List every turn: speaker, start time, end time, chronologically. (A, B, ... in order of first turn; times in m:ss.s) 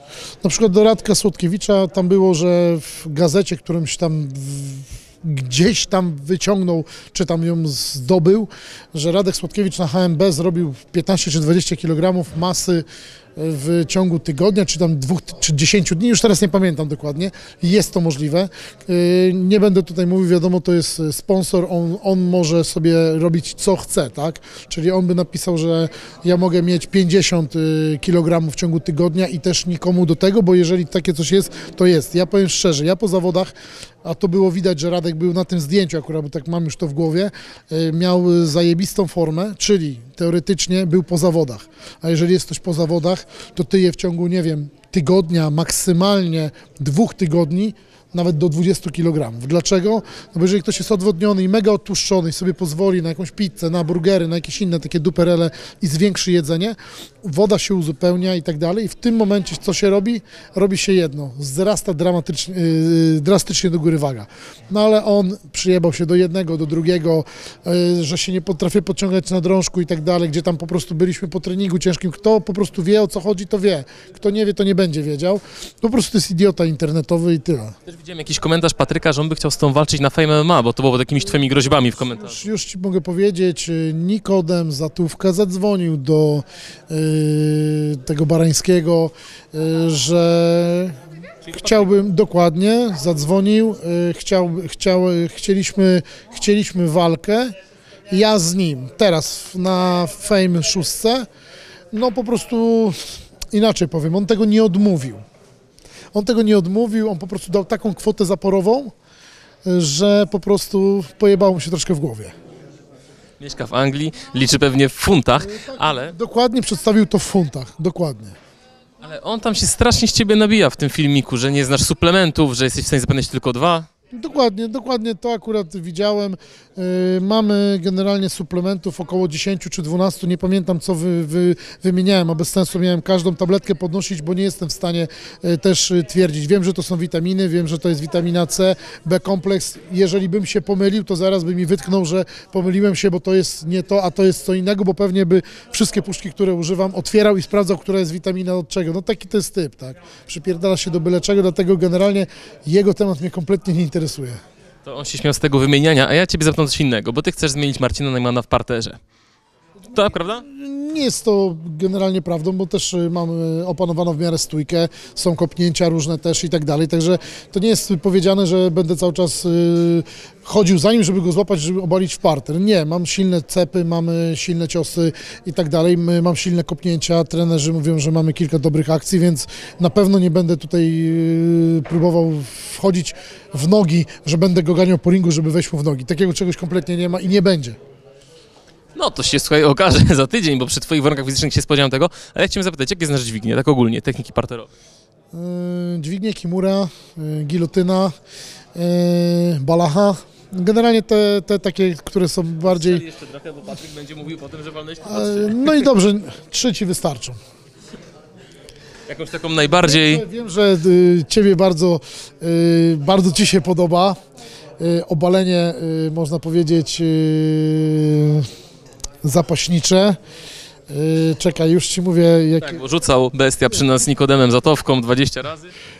0:00.4-1:17.8 A
1:17.8-1:22.4 B
1:22.1-1:31.0 A
1:31.5-1:31.9 B
1:31.5-1:37.5 A
1:38.1-1:41.3 A
1:41.9-1:45.2 A
1:46.1-1:48.9 A
1:49.6-1:52.3 A
1:53.4-1:56.2 B
1:55.4-1:58.3 A
1:59.0-2:03.9 B
2:04.1-2:34.4 A
2:34.8-2:39.0 B
2:39.9-2:40.4 B
2:40.2-3:07.8 A
3:08.9-3:14.7 B
3:15.3-3:18.1 A
3:18.7-3:23.0 A
3:22.7-3:25.8 B
3:25.0-3:27.4 A
3:29.1-3:30.2 B
3:29.7-3:34.2 A
3:34.8-3:38.5 A
3:39.2-3:40.2 A
3:40.9-3:42.8 A
3:42.6-3:45.7 B